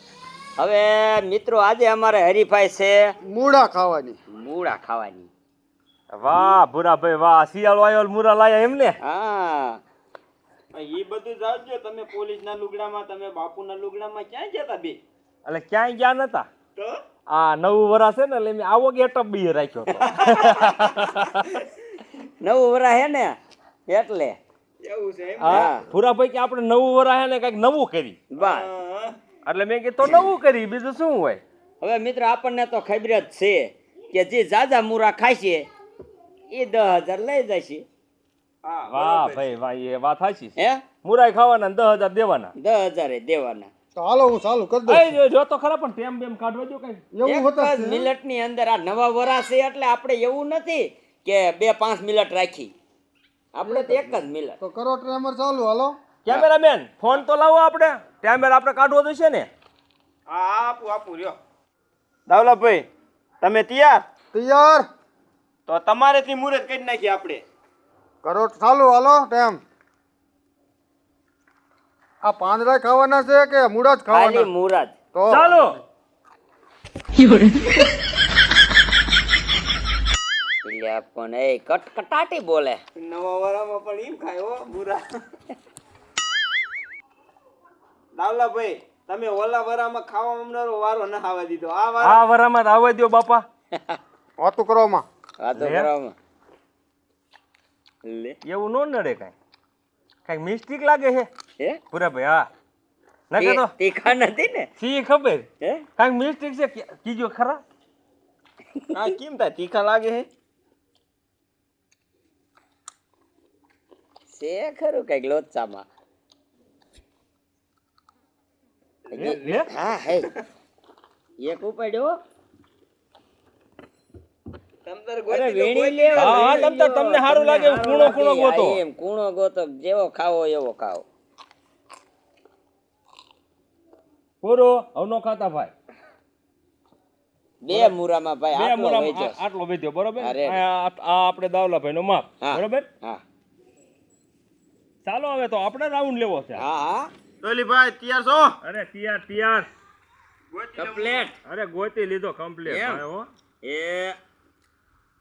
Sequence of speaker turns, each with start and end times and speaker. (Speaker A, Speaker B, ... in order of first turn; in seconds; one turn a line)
Speaker A: 0.6-3.1
Speaker B: 3.2-4.2
Speaker A: 4.3-5.3
Speaker C: 6.1-9.0
Speaker A: 9.0-9.8
Speaker D: 10.7-15.0
Speaker C: 15.4-16.5
Speaker C: 17.3-21.5
Speaker D: 20.1-20.8
Speaker A: 22.4-23.4
Speaker A: 23.9-24.4
Speaker D: 24.8-25.7
Speaker C: 25.4-28.2
Speaker A: 25.5-25.8
Speaker A: 28.3-28.7
Speaker D: 28.4-29.1
Speaker C: 29.4-31.4
Speaker A: 31.8-35.7
Speaker A: 36.5-37.9
Speaker D: 38.6-39.5
Speaker C: 38.9-42.5
Speaker A: 40.6-40.8
Speaker A: 42.6-43.7
Speaker B: 44.0-45.1
Speaker C: 44.9-47.0
Speaker B: 47.1-48.1
Speaker A: 47.2-52.7
Speaker A: 53.5-54.6
Speaker B: 53.6-55.9
Speaker C: 56.2-59.5
Speaker D: 60.3-61.4
Speaker D: 62.3-62.9
Speaker D: 63.4-64.0
Speaker B: 64.3-64.8
Speaker D: 65.7-67.4
Speaker B: 68.2-69.6
Speaker B: 72.2-74.5
Speaker A: 74.1-74.9
Speaker B: 75.1-75.5
Speaker C: 75.3-75.8
Speaker A: 80.6-82.8
Speaker D: 83.0-85.1
Speaker D: 88.1-92.2
Speaker C: 92.0-93.4
Speaker A: 93.7-94.0
Speaker B: 94.4-95.0
Speaker A: 95.4-96.1
Speaker C: 95.5-95.9
Speaker A: 98.0-98.4
Speaker C: 98.4-99.3
Speaker C: 100.3-101.3
Speaker C: 101.9-102.5
Speaker C: 103.3-103.7
Speaker A: 103.4-104.7
Speaker C: 104.8-107.6
Speaker D: 108.9-110.3
Speaker A: 114.3-115.9
Speaker A: 119.1-120.3
Speaker C: 119.2-119.7
Speaker A: 121.4-122.2
Speaker D: 124.8-126.7
Speaker A: 125.3-131.0
Speaker C: 126.1-128.8
Speaker C: 134.4-135.7
Speaker A: 137.6-139.4
Speaker C: 137.7-137.9
Speaker C: 138.5-142.9
Speaker A: 140.2-140.6
Speaker A: 142.4-143.2
Speaker C: 145.0-146.6
Speaker A: 146.6-147.1
Speaker D: 147.4-148.6
Speaker C: 148.6-149.7
Speaker D: 150.5-151.3
Speaker A: 150.8-151.3
Speaker C: 151.4-153.3
Speaker A: 152.6-153.0
Speaker A: 153.6-154.2